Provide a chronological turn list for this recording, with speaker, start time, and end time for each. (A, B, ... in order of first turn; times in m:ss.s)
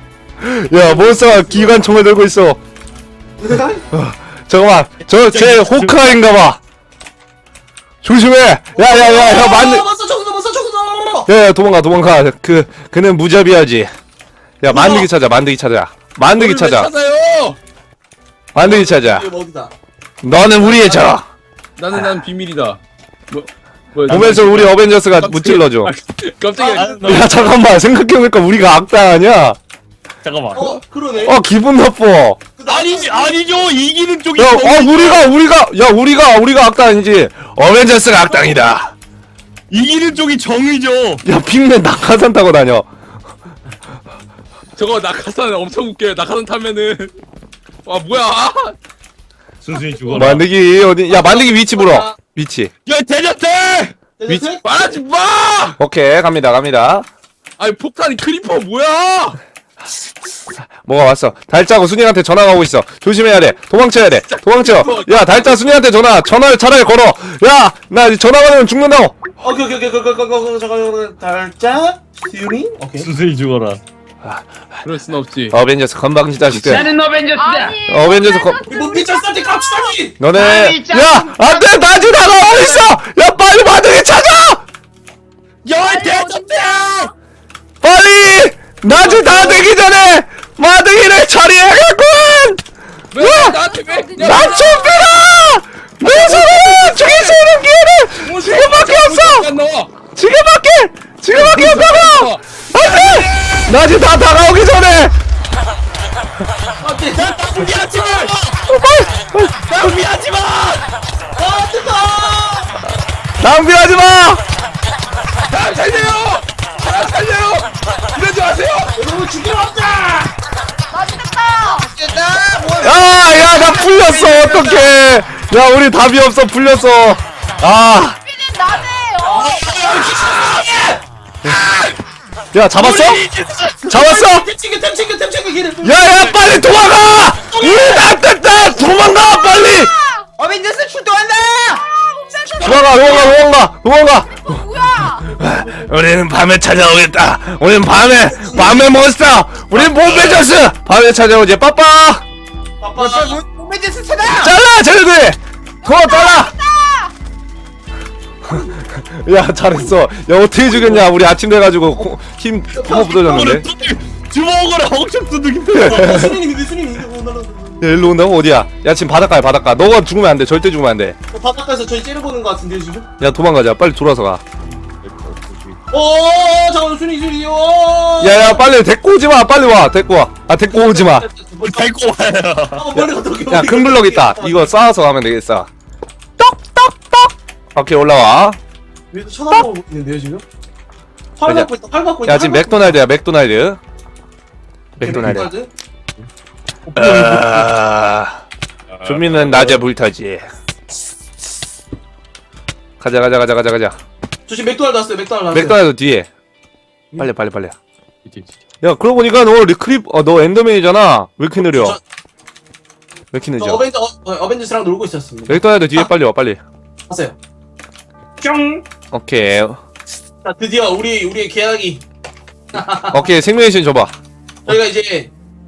0:00.4-0:02.6 A
0:00.7-0:01.7 B
0:03.4-0:03.8 B
0:03.9-0:06.6 A
0:05.3-0:06.2 C
0:08.0-0:09.9 A
0:08.8-0:11.3 B
0:11.3-0:13.9 A
0:14.6-0:16.9 A
0:14.7-0:15.1 B
0:16.3-0:17.6 D
0:18.5-0:19.3 A
0:18.6-0:19.7 B
0:20.2-0:21.2 A
0:20.6-0:21.1 B
0:21.8-0:27.0 D
0:24.1-0:25.9 A
0:26.6-0:27.3 B
0:26.7-0:27.3 C
0:27.0-0:29.6 A
0:30.2-0:30.8 C
0:30.5-0:31.4 B
0:31.2-0:32.4 A
0:32.6-0:33.4 B
0:32.6-0:35.3 C
0:34.4-0:38.9 A
0:39.7-0:41.2 C
0:41.2-0:42.9 A
0:44.8-0:47.2 D
0:47.8-0:48.8 D
0:49.6-0:50.5 C
0:50.1-0:50.4 B
0:50.1-0:52.7 A
0:51.1-0:52.2 B
0:52.8-0:54.0 C
0:54.2-0:54.6 B
0:54.6-0:55.8 D
0:55.8-0:57.1 A
0:57.6-0:59.4 D
1:00.8-1:09.2 A
1:04.3-1:05.2 D
1:04.8-1:05.4 B
1:09.4-1:13.1 B
1:13.0-1:13.8 C
1:14.2-1:14.8 A
1:14.8-1:15.5 D
1:15.5-1:16.9 A
1:16.7-1:17.7 E
1:17.3-1:20.0 F
1:17.9-1:18.6 A
1:18.6-1:20.2 B
1:20.2-1:24.6 A
1:20.3-1:22.9 E
1:25.6-1:27.1 C
1:25.8-1:27.1 F
1:27.8-1:32.6 A
1:28.9-1:29.6 D
1:33.1-1:34.8 D
1:33.2-1:33.6 A
1:33.5-1:35.3 F
1:34.2-1:39.5 A
1:36.1-1:37.4 D
1:38.2-1:39.9 D
1:40.1-1:45.1 A
1:41.3-1:42.4 D
1:42.8-1:43.4 B
1:46.8-1:47.8 B
1:47.1-1:48.6 C
1:48.6-1:50.0 A
1:49.7-1:50.8 C
1:51.4-1:52.7 B
1:53.4-1:54.4 A
1:55.5-1:58.9 D
1:59.0-2:00.3 B
2:00.9-2:01.9 F
2:01.7-2:04.9 E
2:02.8-2:08.2 A
2:08.2-2:10.1 F
2:09.2-2:11.0 B
2:11.5-2:11.8 C
2:12.5-2:13.2 A
2:12.8-2:13.7 C
2:13.7-2:16.3 B
2:13.8-2:14.5 A
2:15.8-2:19.9 A
2:17.5-2:18.1 B
2:18.7-2:20.3 F
2:20.4-2:21.8 E
2:21.7-2:23.4 F
2:22.6-2:24.5 A
2:24.4-2:25.4 F
2:25.4-2:32.2 A
2:28.4-2:28.9 B
2:30.0-2:30.4 D
2:32.8-2:33.4 B
2:32.9-2:34.6 E
2:34.3-2:36.5 A
2:35.8-2:37.1 F
2:38.4-2:43.7 A
2:42.7-2:43.6 B
2:43.3-2:46.3 C
2:45.7-2:46.3 A
2:45.7-2:47.8 B
2:47.8-2:51.2 A
2:51.3-2:53.1 B
2:53.2-2:54.4 A
2:55.0-2:55.8 C
2:55.9-2:58.6 B
2:58.2-3:01.3 A
3:00.7-3:01.9 B
3:01.6-3:02.9 C
3:02.7-3:04.7 B
3:02.9-3:05.7 A
3:07.7-3:08.6 A
3:09.1-3:10.4 B
3:11.4-3:13.0 B
3:12.2-3:13.8 A
3:15.0-3:15.5 A
3:15.0-3:15.7 B
3:16.9-3:17.7 B
3:17.0-3:18.4 A
3:18.9-3:19.8 C
3:19.0-3:20.5 A
3:23.0-3:24.0 A
3:24.5-3:25.8 B
3:25.5-3:26.3 A
3:27.2-3:27.8 A
3:28.2-3:28.6 C
3:28.8-3:32.0 A
3:31.6-3:32.0 B
3:33.3-3:33.8 A
3:33.6-3:36.1 B
3:35.5-3:36.6 A
3:37.1-3:37.4 B
3:38.4-3:38.8 B
3:39.1-3:39.8 A
3:40.4-3:42.0 B
3:42.7-3:43.3 B
3:43.1-3:44.1 A
3:44.6-3:45.3 B